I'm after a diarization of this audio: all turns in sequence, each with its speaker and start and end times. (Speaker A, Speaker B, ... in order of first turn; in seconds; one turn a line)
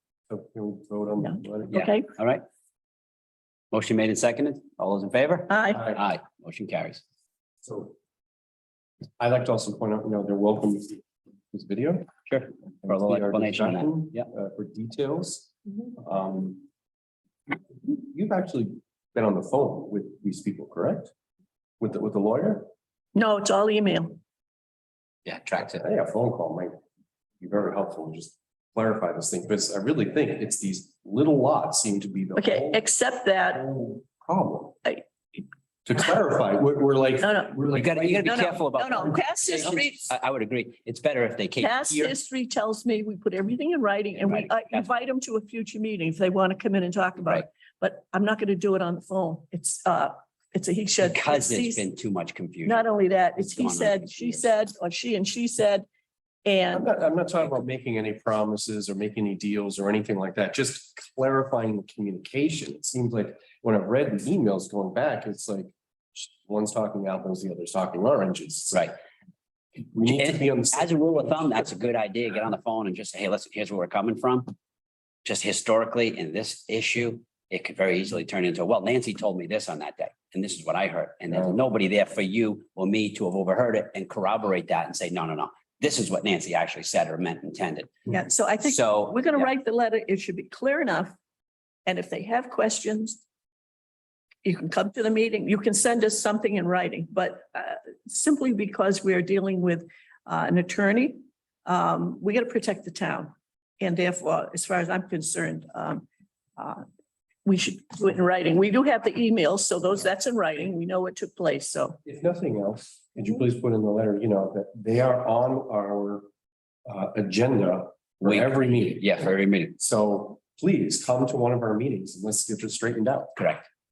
Speaker A: 0.3-1.9
Speaker B: 1.2-2.1
Speaker C: 1.7-2.4
Speaker C: 3.7-7.0
Speaker B: 5.5-6.0
Speaker A: 7.7-8.0
Speaker A: 9.2-12.1
Speaker C: 12.3-14.3
Speaker A: 12.8-16.7
Speaker A: 17.8-21.1
Speaker A: 21.8-22.7
Speaker B: 23.1-24.2
Speaker C: 25.2-25.8
Speaker A: 25.7-26.8
Speaker A: 27.4-32.8
Speaker B: 32.4-33.7
Speaker A: 33.5-34.9
Speaker A: 35.8-38.5
Speaker B: 37.2-40.1
Speaker C: 37.7-42.1
Speaker B: 41.6-51.8
Speaker C: 44.2-44.9
Speaker C: 51.0-52.8
Speaker B: 52.6-55.9
Speaker C: 53.4-54.4
Speaker B: 56.5-56.9
Speaker A: 56.7-68.9
Speaker A: 69.9-71.7
Speaker C: 70.0-74.5
Speaker C: 75.2-88.1
Speaker B: 88.1-91.1
Speaker C: 88.6-89.5
Speaker B: 91.9-93.2
Speaker B: 94.4-106.1
Speaker B: 106.6-106.8
Speaker B: 107.4-112.0
Speaker A: 112.1-116.2
Speaker A: 116.9-123.5
Speaker C: 118.2-119.8
Speaker C: 123.4-123.7